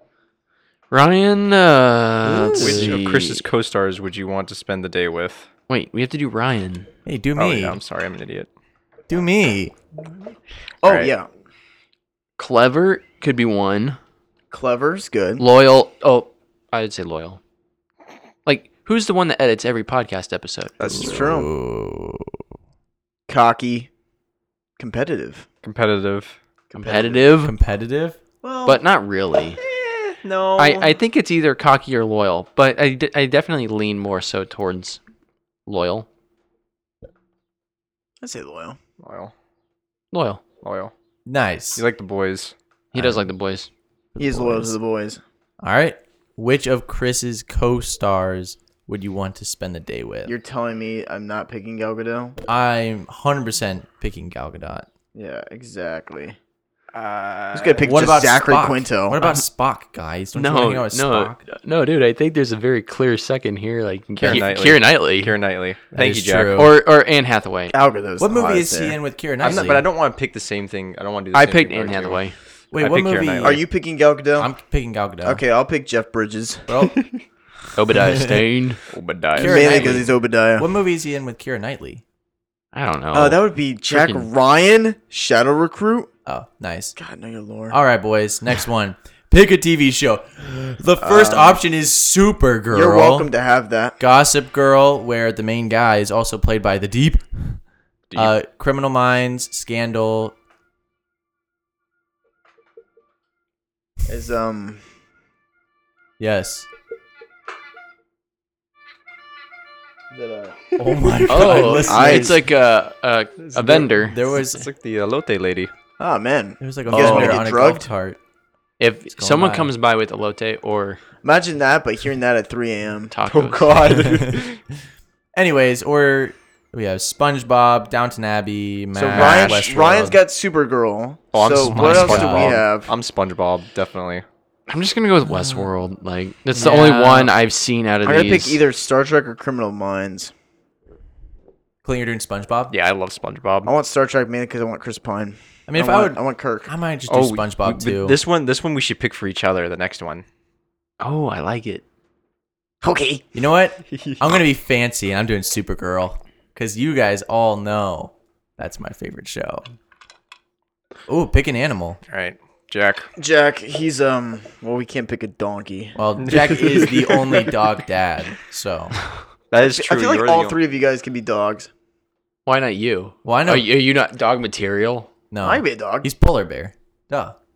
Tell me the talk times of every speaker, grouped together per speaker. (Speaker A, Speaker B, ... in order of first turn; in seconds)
Speaker A: 0.9-3.5, 5.7-6.9, 12.4-14.0, 15.4-17.4, 18.4-20.8, 26.7-27.6, 28.7-29.6, 30.6-35.0, 35.7-36.1, 40.1-40.4, 42.9-43.7, 56.9-57.9, 60.4-65.3, 66.5-67.8, 71.3-72.4, 77.7-78.8, 79.6-80.0, 82.7-84.3, 111.3-114.2, 116.9-117.5, 118.8-121.0, 123.1-124.0, 134.7-138.6, 151.0-151.8, 172.5-175.1
Speaker B: 2.4-2.7, 10.8-11.3, 14.5-15.4, 20.8-21.5, 23.3-23.9, 24.8-25.5, 26.7-27.3, 28.4-28.8, 29.8-30.1, 38.2-38.8, 44.2-45.2, 50.3-52.4, 55.1-56.4, 57.5-59.2, 67.7-69.0, 73.4-74.5, 75.2-76.9, 79.4-80.7, 83.1-86.1, 87.0-87.8, 91.0-91.6, 92.7-94.0, 104.0-104.8, 110.1-112.4, 116.0-117.9, 121.2-123.1, 128.9-132.9, 138.0-140.3, 143.7-146.7, 152.8-153.3, 163.2-166.0, 169.6-171.7, 175.4-176.1
Speaker C: 2.6-5.5, 7.4-8.5, 10.8-11.1, 25.6-26.4, 30.2-31.0, 39.0-39.3, 40.6-40.9, 41.8-42.5, 64.2-66.7, 69.4-72.2, 72.8-73.6, 78.9-79.9, 113.4-115.7, 123.3-124.6, 129.1-129.6, 131.3-134.2, 142.7-143.7, 147.1-150.2, 153.9-154.4, 162.1-163.1, 166.2-167.2, 169.5-170.6
Speaker D: 7.1-7.8, 9.1-9.7, 20.9-22.4, 27.4-28.2, 41.3-41.8, 42.9-43.3, 44.1-44.8, 45.6-50.3, 52.5-54.9, 57.8-61.4, 64.2-64.5, 65.9-66.8, 68.2-69.9, 72.7-73.6, 74.4-75.4, 76.7-77.0, 78.0-78.4, 79.3-82.0, 86.3-87.0, 87.7-93.3, 94.0-97.6, 98.1-100.3, 106.2-106.7, 110.8-112.4, 113.8-114.7, 116.6-118.2, 119.1-119.7, 124.1-124.4, 125.3-130.2, 131.6-132.6, 135.3-135.7, 136.6-137.3, 141.8-142.7, 145.7-148.2, 153.3-159.7, 161.1-162.0, 165.9-169.0, 173.2-173.7, 175.3-177.4